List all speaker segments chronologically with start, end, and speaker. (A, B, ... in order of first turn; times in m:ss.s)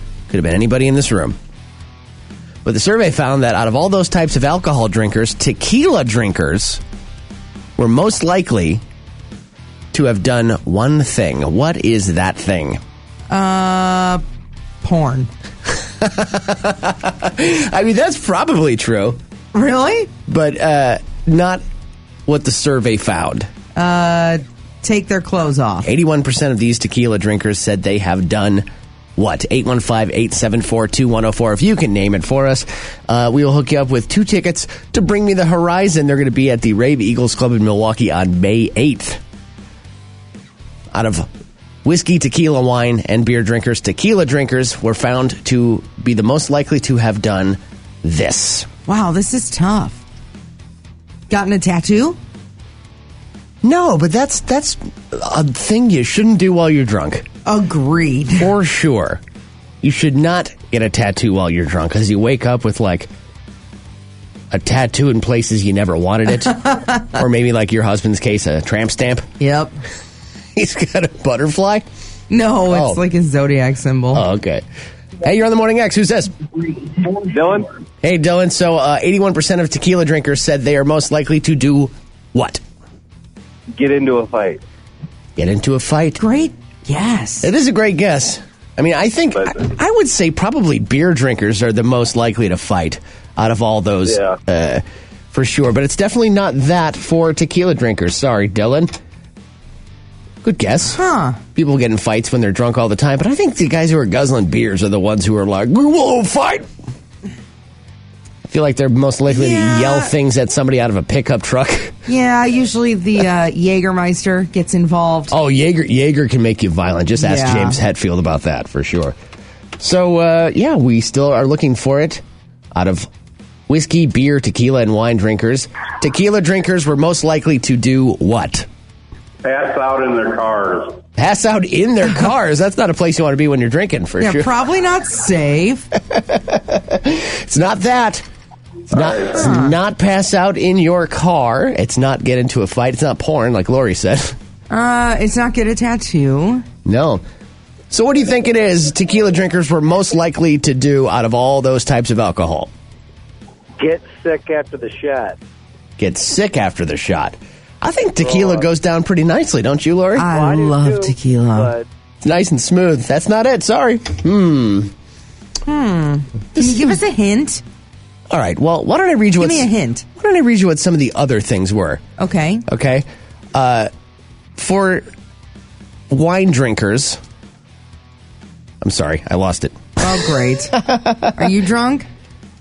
0:00.3-0:01.4 A
0:02.6-0:06.8 A
0:07.8-0:08.8 A
0:09.9-0:12.8 A
0:13.3-0:14.2 B
0:14.8-0:15.3 B
0:15.7-0:19.2 A
0:19.5-0:20.1 B
0:20.2-0:21.6 A
0:22.3-0:23.5 A
0:23.8-0:25.9 B
0:25.8-0:28.6 A
0:29.2-0:39.2 A
0:40.9-0:41.3 A
0:41.8-0:48.7 A
0:48.9-0:50.0 B
0:51.3-0:52.2 B
0:53.6-0:57.2 A
0:57.4-0:58.5 B
0:58.4-0:59.2 A
0:59.8-1:03.1 A
1:04.5-1:09.3 A
1:09.4-1:09.8 B
1:10.5-1:11.8 A
1:12.3-1:14.2 B
1:12.7-1:13.0 A
1:14.1-1:14.6 A
1:15.2-1:16.3 A
1:17.3-1:17.7 C
1:18.0-1:22.6 A
1:23.7-1:24.6 C
1:25.4-1:26.2 A
1:26.2-1:27.5 B
1:27.4-1:38.9 A
1:40.4-1:41.0 A
1:40.9-1:41.4 B
1:41.5-1:46.7 A
1:48.4-1:51.9 A
1:49.3-1:50.1 B
1:52.1-1:55.3 B
1:55.3-1:59.2 A
1:57.2-1:57.8 B
1:59.8-2:02.2 A
2:02.7-2:03.1 A
2:03.7-2:08.7 A
2:09.4-2:10.9 C
2:11.2-2:14.5 A
2:14.2-2:15.9 B
2:16.1-2:18.2 A
2:18.9-2:24.4 A
2:19.3-2:19.8 B
2:24.7-2:26.6 B
2:26.8-2:27.2 A
2:27.9-2:32.7 A
2:33.8-2:35.4 C
2:36.0-2:40.3 A
2:38.2-2:38.7 C
2:40.2-2:41.7 B
2:40.3-2:41.8 C
2:42.2-2:44.9 A
2:45.6-2:47.6 B
2:46.5-2:47.0 A
2:48.3-2:52.0 A
2:49.4-2:50.0 B
2:52.2-2:52.6 B
2:52.7-2:53.9 A
2:54.6-2:55.0 A
2:56.1-2:57.2 A
2:58.8-2:59.9 A
3:00.0-3:02.1 B
3:00.8-3:01.3 A